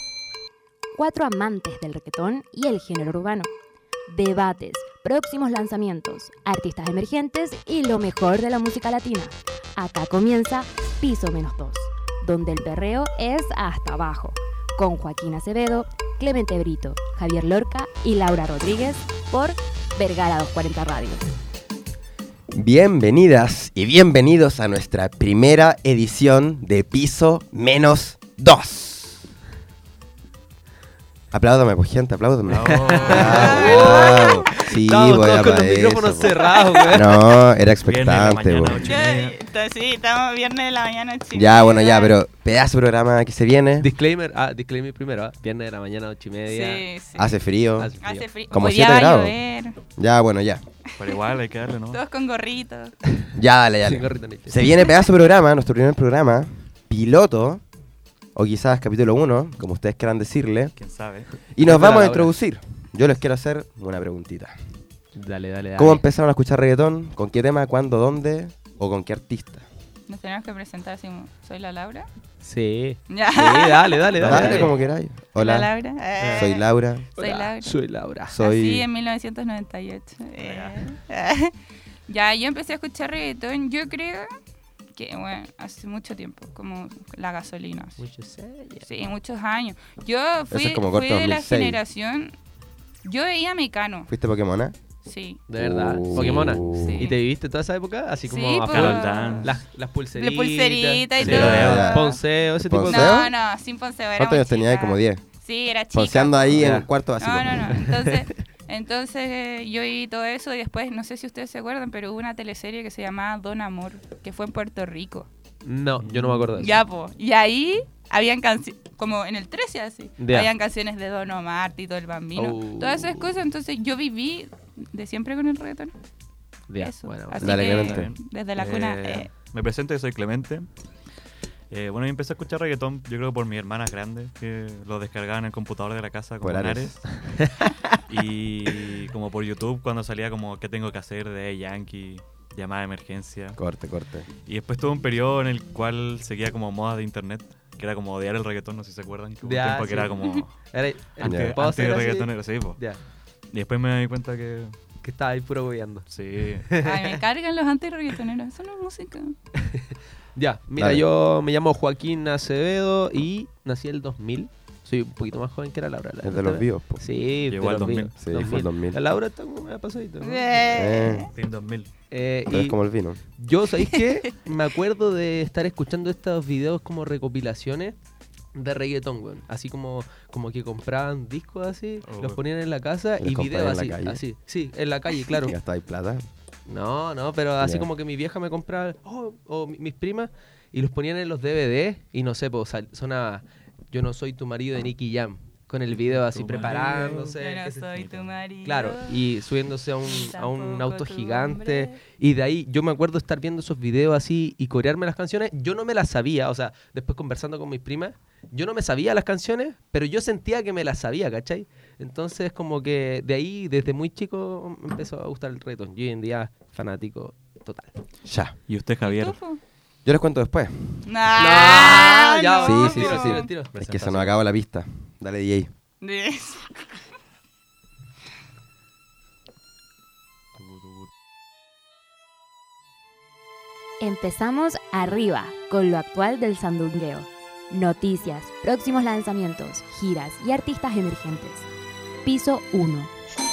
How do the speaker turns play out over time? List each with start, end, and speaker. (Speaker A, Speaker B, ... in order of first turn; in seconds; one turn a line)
Speaker A: 0.9-3.5
Speaker A: 4.1-21.3
Speaker B: 22.5-29.3
Speaker B: 31.3-36.3
Speaker C: 32.5-33.7
Speaker D: 32.7-37.2
Speaker E: 33.1-34.5
Speaker E: 36.2-37.0
Speaker B: 36.9-38.8
Speaker C: 37.8-39.4
Speaker E: 38.8-42.2
Speaker B: 41.3-43.9
Speaker D: 43.8-46.8
Speaker E: 46.5-47.4
Speaker B: 47.2-47.9
Speaker D: 47.8-48.3
Speaker E: 48.0-49.8
Speaker B: 48.5-49.4
Speaker B: 50.0-50.6
Speaker E: 50.9-51.4
Speaker C: 51.0-52.0
Speaker E: 51.9-53.0
Speaker B: 53.3-57.6
Speaker D: 53.8-54.7
Speaker B: 58.4-60.7
Speaker C: 60.8-61.3
Speaker B: 61.5-64.6
Speaker D: 61.6-62.3
Speaker D: 65.2-66.0
Speaker B: 65.8-69.7
Speaker E: 70.1-72.1
Speaker D: 72.4-74.7
Speaker E: 73.1-76.6
Speaker B: 74.2-75.7
Speaker C: 74.2-74.7
Speaker D: 76.2-76.4
Speaker B: 76.3-77.1
Speaker E: 77.2-77.8
Speaker D: 77.2-78.3
Speaker B: 78.3-78.8
Speaker E: 78.4-81.5
Speaker C: 80.4-80.8
Speaker E: 82.1-84.3
Speaker E: 84.9-88.0
Speaker D: 88.0-88.9
Speaker E: 88.8-92.3
Speaker B: 90.5-91.8
Speaker E: 93.0-94.1
Speaker B: 94.1-94.8
Speaker E: 95.0-95.4
Speaker D: 95.5-103.2
Speaker B: 95.6-97.1
Speaker E: 96.2-97.2
Speaker E: 98.3-99.5
Speaker C: 98.7-99.6
Speaker E: 100.1-102.2
Speaker C: 101.2-101.9
Speaker B: 101.2-102.1
Speaker B: 102.6-103.3
Speaker E: 102.8-115.3
Speaker B: 104.2-105.2
Speaker B: 105.9-107.7
Speaker D: 106.6-106.9
Speaker D: 107.7-108.2
Speaker D: 115.7-116.8
Speaker C: 116.0-116.7
Speaker E: 116.6-125.9
Speaker D: 120.2-120.5
Speaker D: 122.3-123.3
Speaker D: 126.7-127.7
Speaker E: 126.8-129.3
Speaker B: 127.4-128.1
Speaker C: 127.7-130.7
Speaker C: 131.7-137.0
Speaker B: 136.4-137.2
Speaker D: 137.4-138.0
Speaker C: 138.1-143.6
Speaker B: 143.6-144.3
Speaker C: 144.4-150.5
Speaker D: 149.4-153.0
Speaker C: 151.2-152.8
Speaker B: 151.2-151.5
Speaker C: 153.5-154.8
Speaker D: 155.0-156.1
Speaker C: 156.1-156.7
Speaker D: 156.6-157.2
Speaker E: 156.8-159.3
Speaker D: 159.6-170.6
Speaker B: 160.8-161.1
Speaker B: 166.2-167.0
Speaker C: 167.5-168.2
Speaker B: 168.2-169.0
Speaker E: 170.2-171.3
Speaker B: 170.7-171.3
Speaker C: 171.3-171.9
Speaker D: 172.1-172.8
Speaker B: 172.5-173.2
Speaker D: 173.3-177.9
Speaker D: 178.5-185.5
Speaker C: 182.0-182.4
Speaker B: 183.2-184.2
Speaker B: 185.4-186.2
Speaker D: 186.7-198.1
Speaker B: 187.6-187.9
Speaker C: 196.1-197.3
Speaker E: 196.7-199.2
Speaker D: 198.6-217.9
Speaker E: 200.1-202.0
Speaker B: 218.2-218.6
Speaker C: 218.7-219.4
Speaker E: 219.0-219.6
Speaker B: 220.0-221.8
Speaker E: 221.0-223.5
Speaker D: 221.3-224.3
Speaker B: 222.6-225.7
Speaker E: 226.0-226.9
Speaker C: 230.6-231.1
Speaker A: 234.0-241.7
Speaker A: 242.2-243.1